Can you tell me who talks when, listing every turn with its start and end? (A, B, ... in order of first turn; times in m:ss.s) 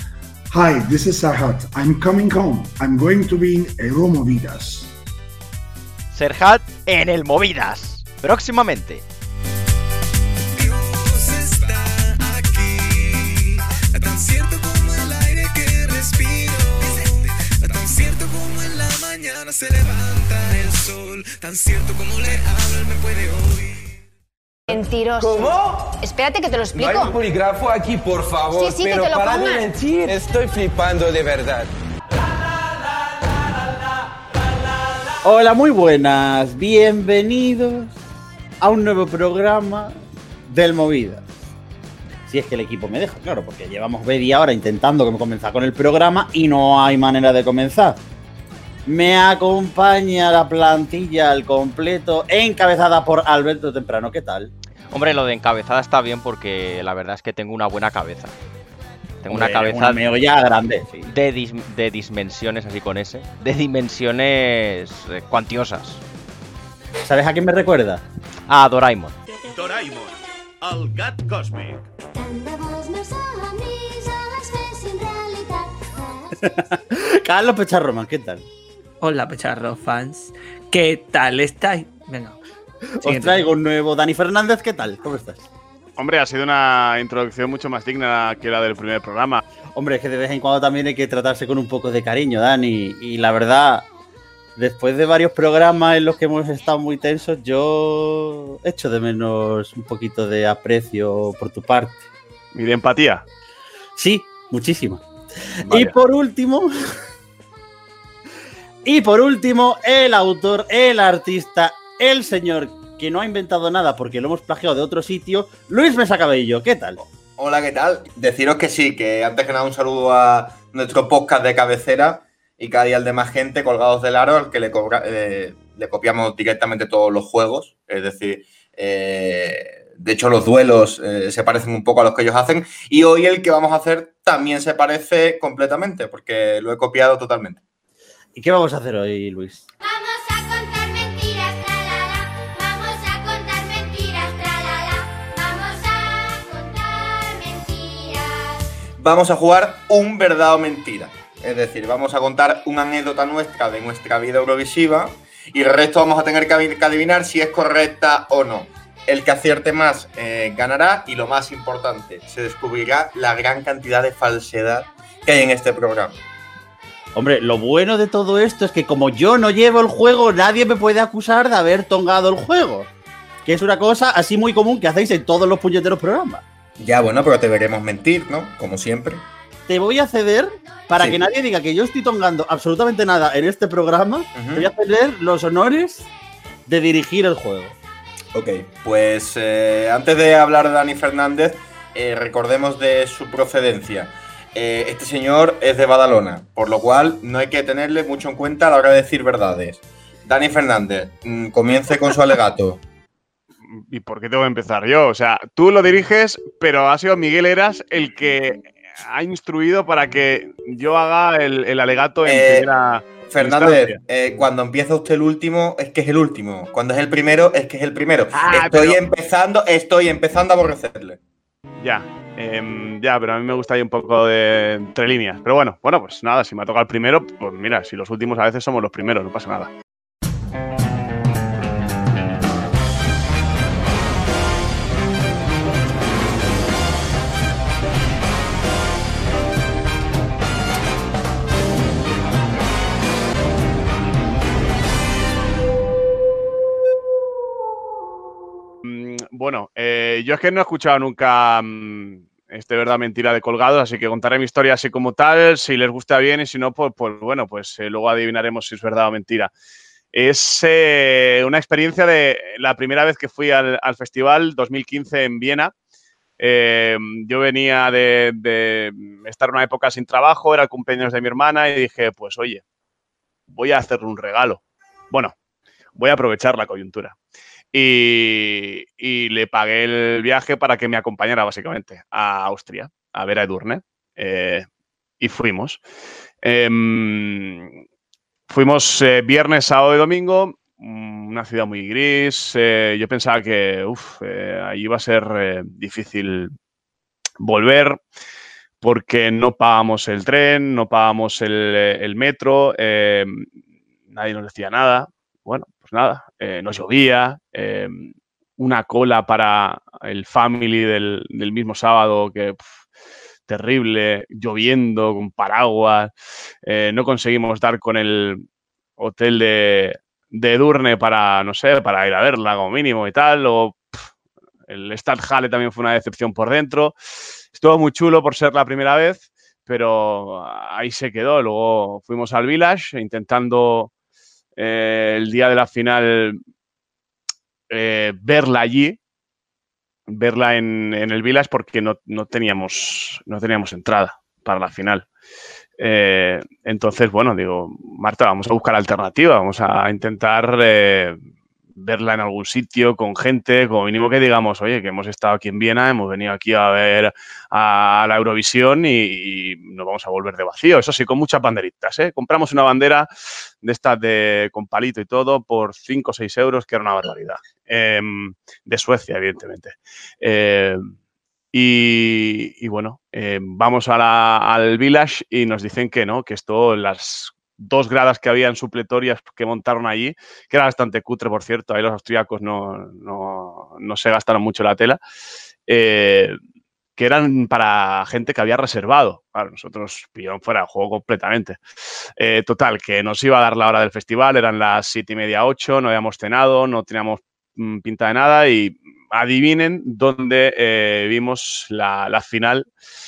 0:00.5-0:05.0 A
0:06.1-0:09.0 B
0:10.9-0:12.9 C
0:14.0-0:17.0 C
0:17.6-0:23.4 C
0:24.7-0:25.4 D
0:25.1-0:25.9 E
0:26.0-0:27.1 D
0:26.7-0:31.7 E
0:28.6-0:29.6 D
0:35.2-0:38.0 F
0:38.6-0:39.9 F
0:40.5-0:41.2 F
0:42.3-0:48.0 F
0:48.8-0:54.5 F
0:54.9-0:58.3 B
0:59.2-1:00.0 B
0:59.3-1:01.1 F
1:01.1-1:06.0 B
1:07.0-1:08.0 F
1:08.5-1:09.2 B
1:09.5-1:10.1 G
1:10.6-1:11.8 G
1:12.1-1:16.4 H
1:16.4-1:18.4 F
1:19.0-1:22.4 I
1:23.0-1:25.4 F
1:23.0-1:23.5 I
1:26.0-1:29.4 G
1:29.8-1:33.8 F
1:34.6-1:42.0 F
1:42.5-1:43.2 G
1:44.0-1:45.0 F
1:45.6-1:46.7 F
1:45.7-1:45.9 G
1:48.8-1:57.0 F
1:57.4-2:17.6 J
2:18.3-2:19.6 F
2:19.8-2:28.7 H
2:29.0-2:46.1 J
2:47.1-2:52.9 F
2:53.4-2:56.4 F
2:56.8-2:59.2 J
2:59.7-3:06.0 F
3:04.3-3:04.7 J
3:06.6-3:07.8 F
3:08.3-3:22.8 J
3:23.8-3:34.0 G
3:32.2-3:32.7 J
3:33.3-3:41.2 J
3:38.3-3:39.0 B
3:41.8-3:49.7 G
4:08.8-4:19.5 G
4:20.1-4:25.7 G
4:26.4-4:32.6 G
4:33.5-4:35.3 G
4:36.0-4:37.1 G
4:37.7-4:44.6 G
4:45.2-4:45.8 G
4:46.4-4:47.7 G
4:48.5-4:56.5 G
4:57.4-4:58.0 G
4:58.8-5:03.4 G
5:04.1-5:12.6 G
5:13.5-5:16.1 G
5:16.6-5:18.4 G
5:19.0-5:24.0 G
5:24.7-5:26.9 G
5:27.5-5:33.9 G
5:34.6-5:36.4 G
5:37.7-5:39.0 G
5:40.1-5:45.0 G
5:45.8-5:51.2 G
5:51.8-6:03.1 G
6:03.6-6:10.8 G
6:11.5-6:25.0 G
6:25.7-6:26.4 G
6:27.0-6:31.6 G
6:32.2-6:42.7 G